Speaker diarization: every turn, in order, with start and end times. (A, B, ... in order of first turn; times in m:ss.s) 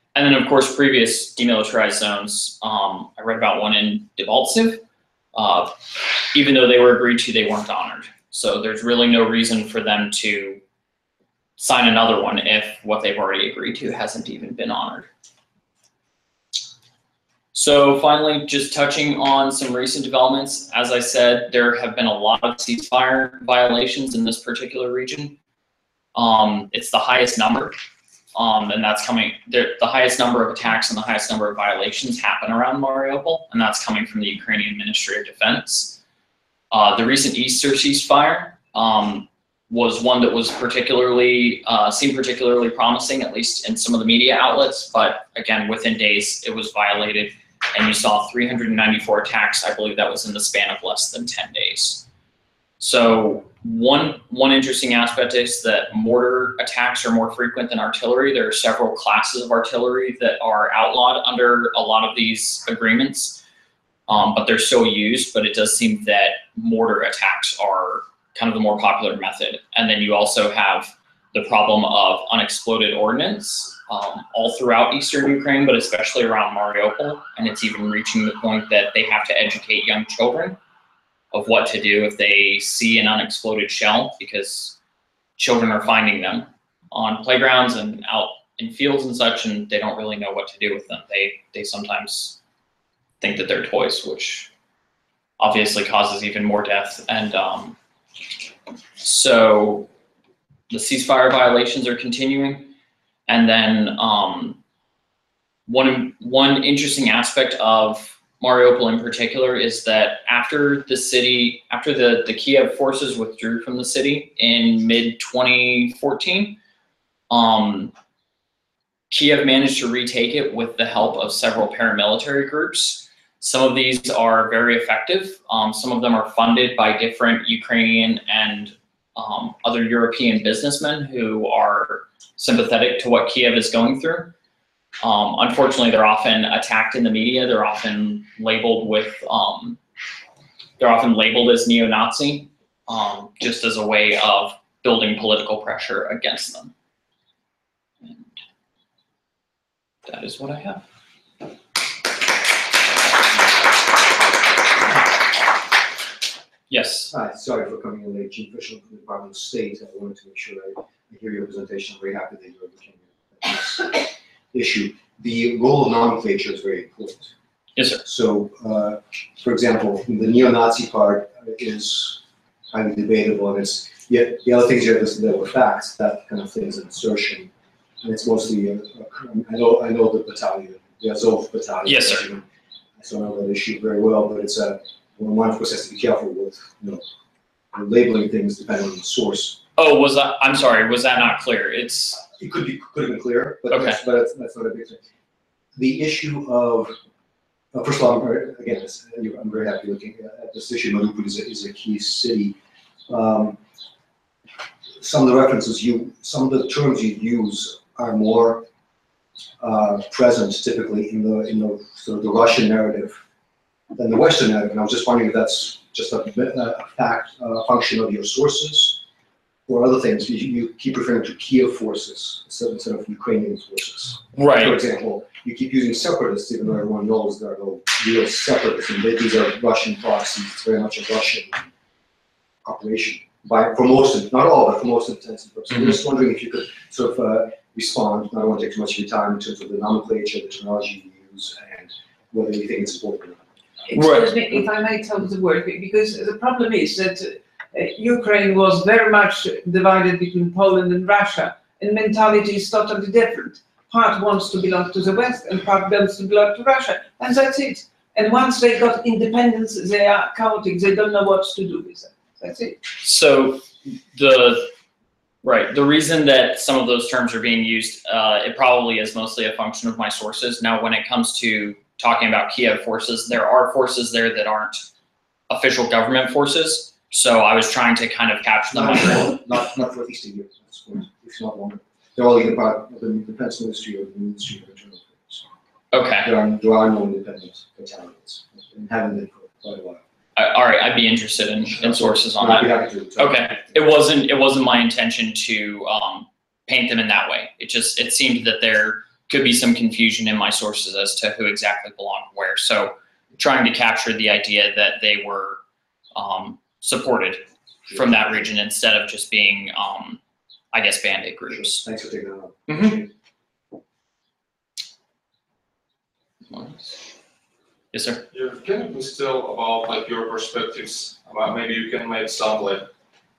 0:00.2-0:04.8 A
0:05.3-0:05.8 A
0:06.3-0:10.6 A
0:11.6-0:15.1 A
0:17.5-0:25.4 A
0:26.2-0:27.8 A
0:28.4-0:36.0 A
0:36.7-0:52.1 A
0:52.8-1:03.4 A
1:04.1-1:20.6 A
1:21.3-1:24.8 A
1:25.4-1:32.4 A
1:33.2-1:34.5 A
1:35.4-1:37.8 A
1:39.0-1:39.9 A
1:40.7-1:42.7 A
1:43.3-1:44.6 A
1:45.7-1:56.6 A
1:57.3-1:57.9 A
1:59.1-2:14.3 A
2:15.0-2:19.8 A
2:20.8-2:26.7 A
2:30.1-2:30.9 A
2:36.7-2:37.1 A
2:37.1-2:47.3 B
2:47.8-2:48.0 A
2:48.0-2:52.2 B
2:52.7-2:57.5 B
2:58.0-3:02.5 B
3:01.8-3:02.3 A
3:03.0-3:07.0 B
3:07.7-3:09.6 B
3:09.8-3:12.2 A
3:12.2-3:15.0 B
3:13.7-3:14.0 A
3:15.8-3:17.0 B
3:17.7-3:22.6 B
3:23.1-3:23.6 B
3:25.0-3:28.7 B
3:29.6-3:33.2 B
3:34.0-3:39.0 B
3:39.7-3:51.6 B
3:44.4-3:44.8 A
3:52.6-4:03.4 B
4:03.9-4:22.8 C
4:03.9-4:04.3 A
4:23.0-4:24.7 A
4:25.4-4:34.9 A
4:35.5-4:39.4 A
4:38.7-4:45.5 B
4:45.9-4:46.3 A
4:46.2-4:50.0 B
4:50.4-5:05.6 A
4:51.7-4:53.8 B
5:06.2-5:10.2 A
5:07.9-5:08.2 B
5:10.7-5:11.9 A
5:11.5-5:13.1 B
5:12.7-5:13.0 A
5:16.5-5:17.0 A
5:17.9-5:18.2 A
5:18.3-5:22.9 D